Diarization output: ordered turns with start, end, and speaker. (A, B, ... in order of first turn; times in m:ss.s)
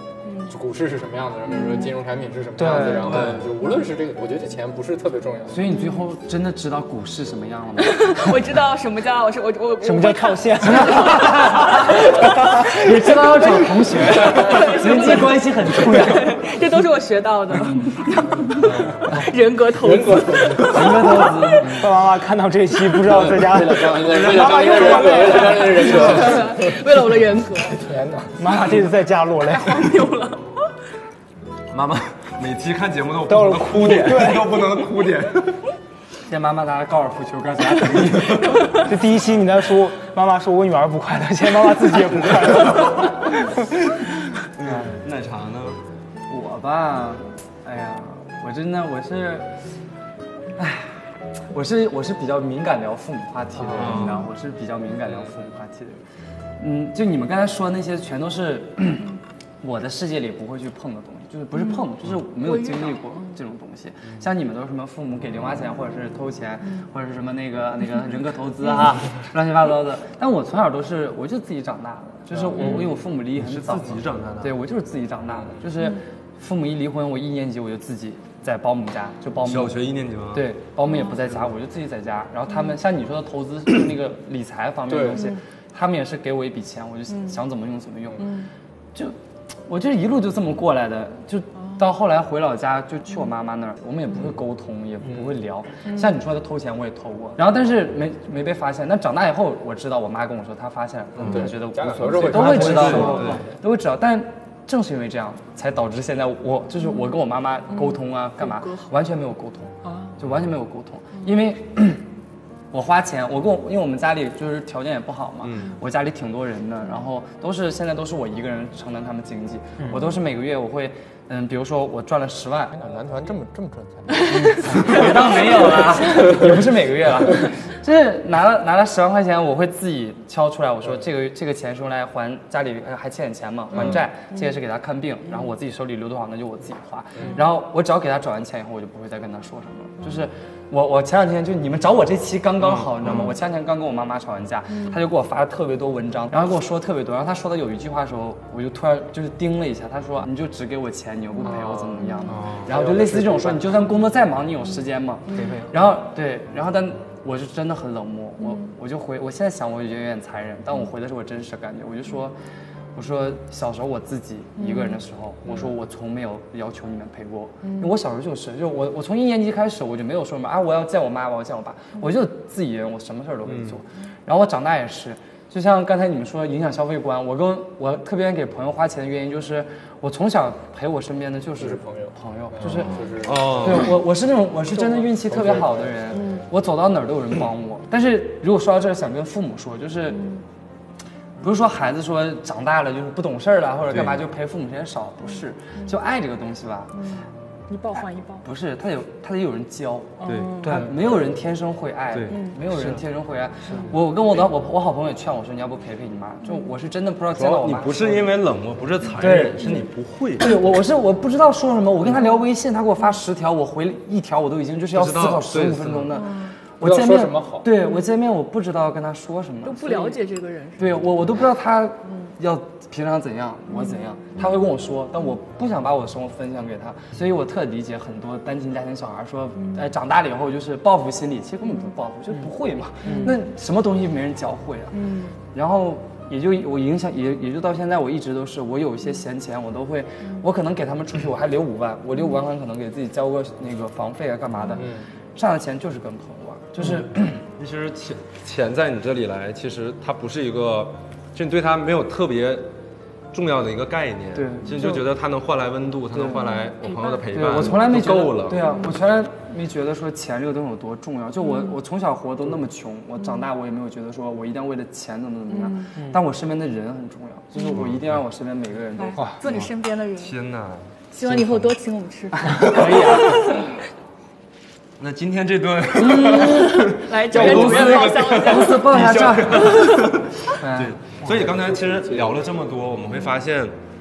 0:00.4-0:05.6 A
0:01.6-0:01.9 B
0:02.6-0:03.2 C
0:03.1-0:03.4 D
0:05.5-0:08.3 E
0:05.7-0:06.0 B
0:07.8-0:21.6 B
0:09.8-0:11.2 C
0:10.6-0:16.4 E
0:18.6-0:19.0 A
0:19.7-0:21.1 A
0:20.6-0:21.9 E
0:21.6-0:25.9 C
0:23.0-0:26.8 A
0:24.1-0:25.2 D
0:25.0-0:27.8 B
0:27.6-0:28.6 A
0:28.4-0:30.0 C
0:29.4-0:30.7 B
0:31.7-0:35.6 D
0:33.3-0:34.6 C
0:36.3-0:38.8 E
0:38.5-0:38.8 B
0:38.8-0:43.5 C
0:44.6-0:45.8 D
0:44.6-0:45.0 E
0:46.3-0:49.5 E
0:50.6-0:56.0 E
0:53.7-0:54.3 D
0:56.6-1:19.8 E
1:01.6-1:01.8 B
1:02.4-1:03.4 B
1:12.5-1:14.5 D
1:19.4-1:20.5 D
1:20.3-1:28.4 E
1:24.9-1:25.2 A
1:27.1-1:27.4 B
1:28.2-1:28.5 B
1:28.9-1:52.0 E
1:35.0-1:35.4 A
1:35.8-1:36.2 B
1:41.2-1:41.5 D
1:41.2-1:43.5 A
1:42.1-1:43.4 D
1:42.3-1:43.4 C
1:47.7-1:48.9 B
1:49.8-1:50.1 B
1:52.7-2:02.8 E
1:55.4-1:55.7 D
2:02.7-2:06.4 A
2:04.2-2:04.9 B
2:04.3-2:42.3 E
2:17.2-2:17.4 A
2:22.6-2:23.3 D
2:31.4-2:32.0 A
2:32.0-2:32.4 B
2:32.3-2:32.7 D
2:32.6-2:33.8 A
2:35.3-2:35.6 B
2:35.3-2:35.7 C
2:42.9-3:10.3 E
2:44.6-2:45.0 B
2:47.6-2:47.9 B
2:53.5-2:53.8 D
3:01.6-3:03.8 A
3:02.6-3:04.0 D
3:04.8-3:05.1 B
3:05.2-3:06.0 A
3:10.1-3:10.4 B
3:11.4-3:17.0 E
3:13.9-3:14.2 D
3:17.0-3:18.4 B
3:18.4-3:28.3 E
3:20.2-3:20.8 B
3:20.2-3:20.8 D
3:20.6-3:20.9 C
3:22.1-3:22.4 D
3:22.3-3:22.6 B
3:27.4-3:30.5 D
3:29.2-3:29.8 E
3:30.4-3:40.2 E
3:34.9-3:36.2 D
3:36.1-3:36.5 B
3:36.8-3:37.7 A
3:39.6-3:41.0 B
3:40.8-4:07.4 E
3:43.7-3:44.0 B
3:49.6-3:49.8 B
3:53.0-3:53.4 B
3:53.0-3:53.3 C
3:54.9-3:55.3 B
4:04.7-4:05.0 A
4:07.6-4:12.7 D
4:13.3-4:18.6 D
4:14.3-4:15.0 E
4:16.1-4:16.4 E
4:16.4-4:17.3 B
4:17.3-4:29.2 E
4:18.6-4:19.0 B
4:21.4-4:21.8 B
4:25.5-4:25.9 B
4:27.5-4:27.8 B
4:27.7-4:28.2 D
4:29.0-4:30.4 B
4:29.4-4:30.9 D
4:31.1-4:33.7 B
4:32.6-4:33.2 C
4:32.6-4:33.4 E
4:35.0-4:43.7 D
4:36.0-4:40.0 E
4:36.4-4:39.0 B
4:39.6-4:40.1 B
4:40.5-4:41.0 E
4:41.2-4:42.4 A